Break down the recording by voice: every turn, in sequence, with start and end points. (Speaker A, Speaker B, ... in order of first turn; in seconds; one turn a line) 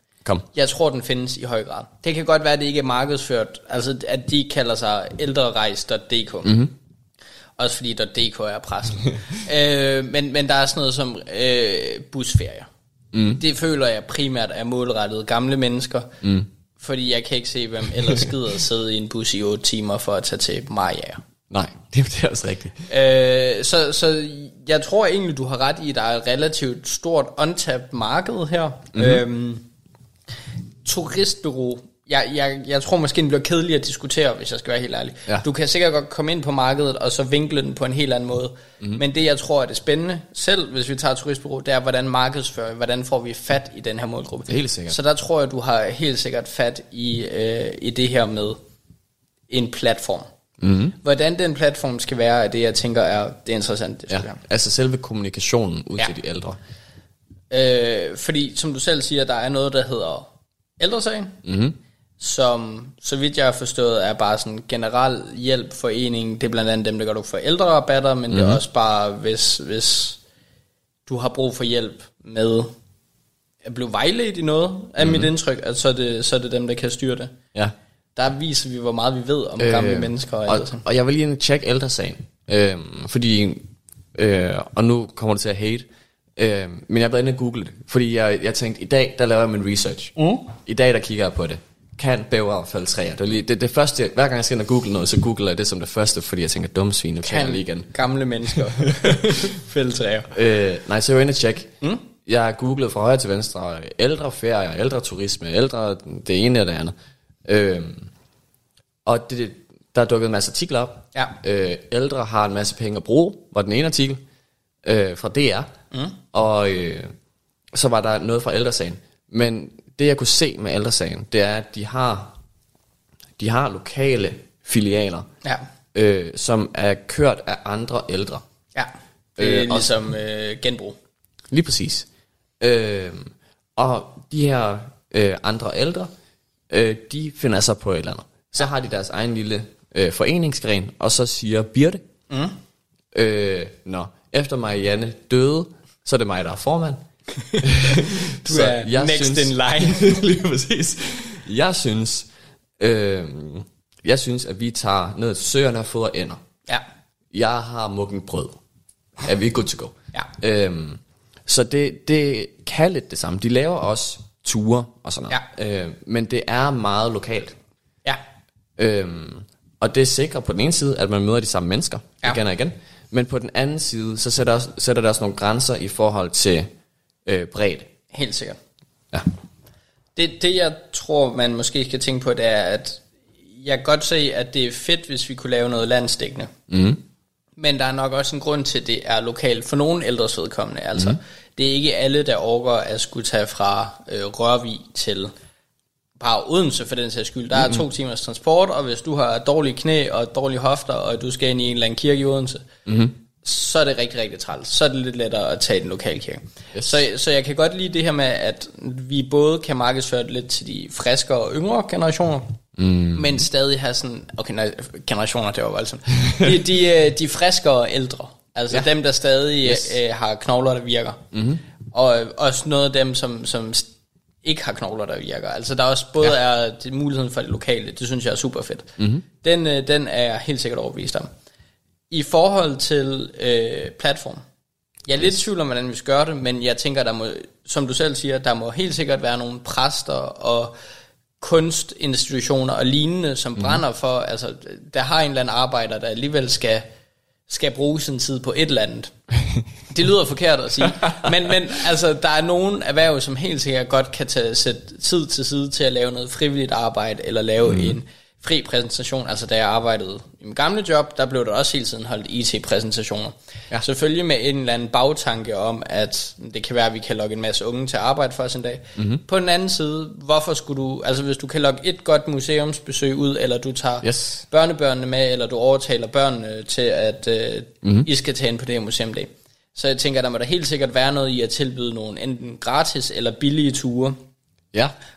Speaker A: 0.5-6.6
Speaker B: 6.4-6.7
Speaker A: 7.6-12.7
Speaker B: 13.1-13.4
Speaker A: 13.4-16.1
Speaker B: 16.2-16.5
Speaker A: 16.8-21.2
Speaker B: 21.5-22.9
Speaker A: 22.9-29.6
Speaker B: 28.9-29.2
Speaker A: 30.8-48.6
Speaker B: 44.5-45.0
Speaker A: 49.5-50.3
Speaker B: 50.6-51.0
Speaker A: 51.0-54.4
Speaker B: 54.1-56.6
Speaker A: 57.5-61.4
Speaker B: 61.4-61.8
Speaker A: 62.2-70.2
Speaker B: 68.3-68.6
Speaker A: 71.1-72.7
Speaker A: 73.6-77.3
Speaker B: 75.0-75.3
Speaker A: 78.2-80.8
Speaker B: 79.6-97.9
Speaker A: 90.2-90.5
Speaker A: 97.2-100.3
Speaker B: 98.5-99.3
Speaker B: 100.3-108.1
Speaker B: 109.0-114.2
Speaker B: 114.8-115.7
Speaker A: 115.9-116.2
Speaker B: 116.3-117.1
Speaker B: 117.7-122.3
Speaker B: 123.4-125.3
Speaker B: 125.9-128.4
Speaker A: 128.7-131.0
Speaker B: 129.4-130.0
Speaker B: 131.5-132.1
Speaker B: 132.6-136.1
Speaker B: 136.7-142.0
Speaker A: 142.3-142.6
Speaker B: 143.1-147.0
Speaker A: 147.4-150.1
Speaker B: 147.6-156.4
Speaker B: 157.3-158.6
Speaker B: 159.2-167.6
Speaker B: 168.8-176.7
Speaker B: 177.2-177.9
Speaker A: 178.1-178.6
Speaker A: 180.2-186.5
Speaker B: 186.7-187.0
Speaker A: 187.6-195.3
Speaker A: 196.2-202.7
Speaker B: 197.5-197.8
Speaker B: 202.8-203.1
Speaker A: 203.4-212.6
Speaker B: 206.7-207.0
Speaker B: 212.8-213.4
Speaker A: 213.1-221.2
Speaker B: 219.6-220.0
Speaker B: 221.3-221.6
Speaker A: 221.9-223.9
Speaker A: 224.4-231.3
Speaker B: 229.0-229.2
Speaker A: 232.1-234.4
Speaker A: 235.1-240.7
Speaker A: 241.4-246.8
Speaker A: 247.5-249.1
Speaker A: 249.9-284.2
Speaker B: 257.7-257.9
Speaker B: 268.9-269.2
Speaker B: 274.0-274.4
Speaker B: 277.8-278.1